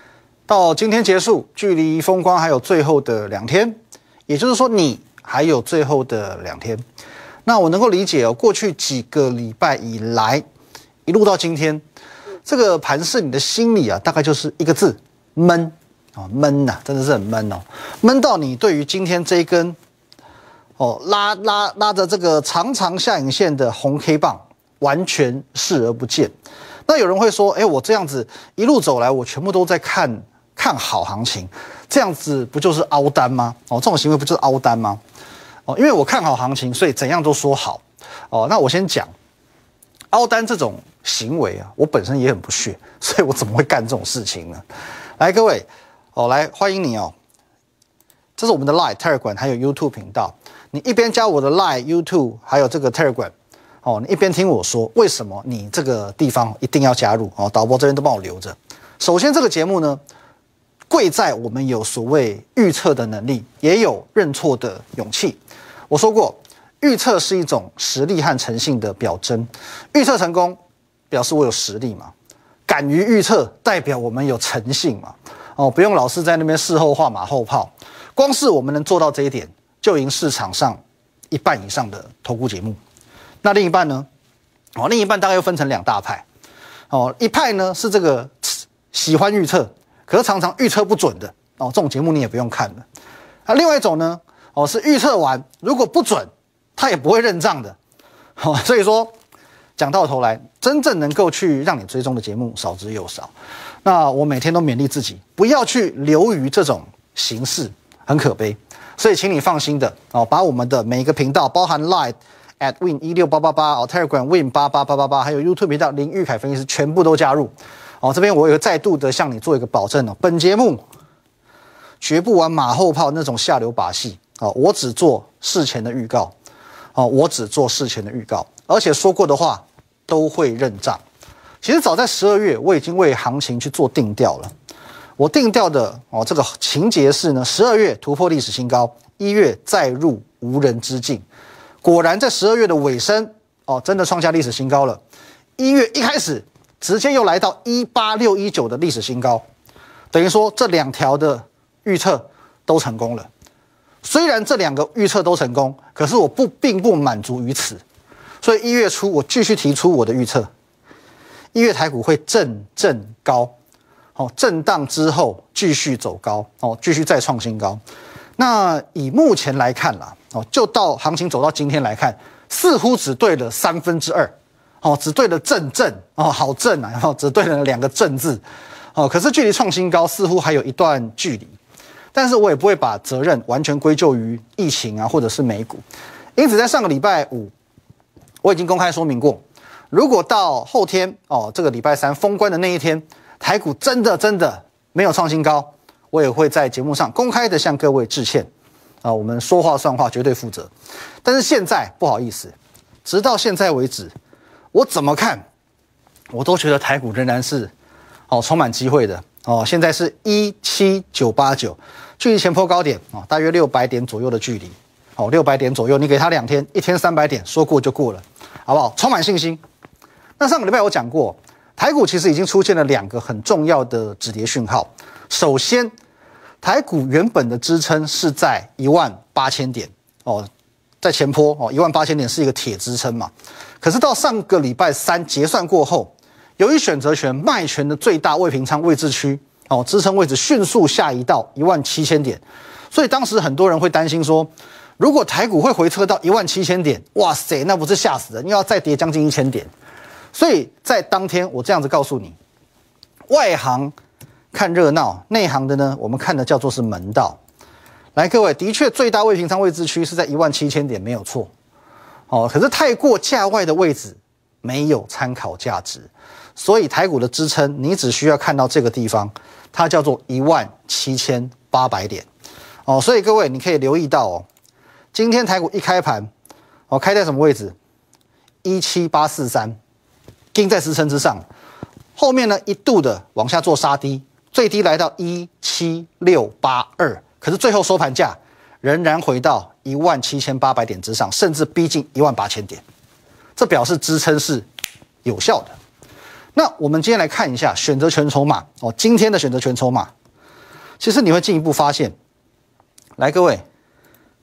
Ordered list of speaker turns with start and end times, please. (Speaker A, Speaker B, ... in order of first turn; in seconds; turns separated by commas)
Speaker A: 0.5-3.8, Speaker A: 4.3-6.8, Speaker A: 7.5-10.4, Speaker A: 11.1-11.8, Speaker A: 12.5-19.8, Speaker A: 20.8-26.3, Speaker A: 26.9-35.0, Speaker A: 35.7-39.1, Speaker A: 40.1-44.6, Speaker A: 45.2-47.1, Speaker A: 48.4-53.3, Speaker A: 53.8-60.0, Speaker A: 60.9-65.4, Speaker A: 65.9-70.6, Speaker A: 71.1-72.1, Speaker A: 72.7-80.8, Speaker A: 81.3-82.8, Speaker A: 83.4-84.1, Speaker A: 84.8-86.2, Speaker A: 86.9-92.8, Speaker A: 93.5-97.8, Speaker A: 98.4-99.1, Speaker A: 99.8-103.3, Speaker A: 103.8-120.8, Speaker A: 122.0-126.3, Speaker A: 127.0-131.0, Speaker A: 131.6-134.5, Speaker A: 135.2-141.2, Speaker A: 141.8-145.0, Speaker A: 145.6-149.4, Speaker A: 150.1-153.3, Speaker A: 154.0-157.8, Speaker A: 158.4-160.5, Speaker A: 161.5-163.5, Speaker A: 164.2-167.8, Speaker A: 168.4-178.4, Speaker A: 178.9-181.5, Speaker A: 182.1-185.8, Speaker A: 186.4-187.5, Speaker A: 188.4-198.5, Speaker A: 199.0-200.7, Speaker A: 201.2-202.5, Speaker A: 203.1-204.1, Speaker A: 204.7-205.4, Speaker A: 206.3-207.7, Speaker A: 208.3-219.6, Speaker A: 220.4-225.9, Speaker A: 226.6-230.5, Speaker A: 231.0-249.7, Speaker A: 250.3-252.3, Speaker A: 253.3-253.9, Speaker A: 254.5-257.4, Speaker A: 258.2-261.5, Speaker A: 262.3-272.3, Speaker A: 272.9-274.5, Speaker A: 275.1-276.3, Speaker A: 276.9-277.8, Speaker A: 278.6-279.8, Speaker A: 280.5-281.4, Speaker A: 282.2-292.8, Speaker A: 293.6-294.7, Speaker A: 295.2-295.8, Speaker A: 296.6-300.1, Speaker A: 301.0-302.1, Speaker A: 303.2-303.6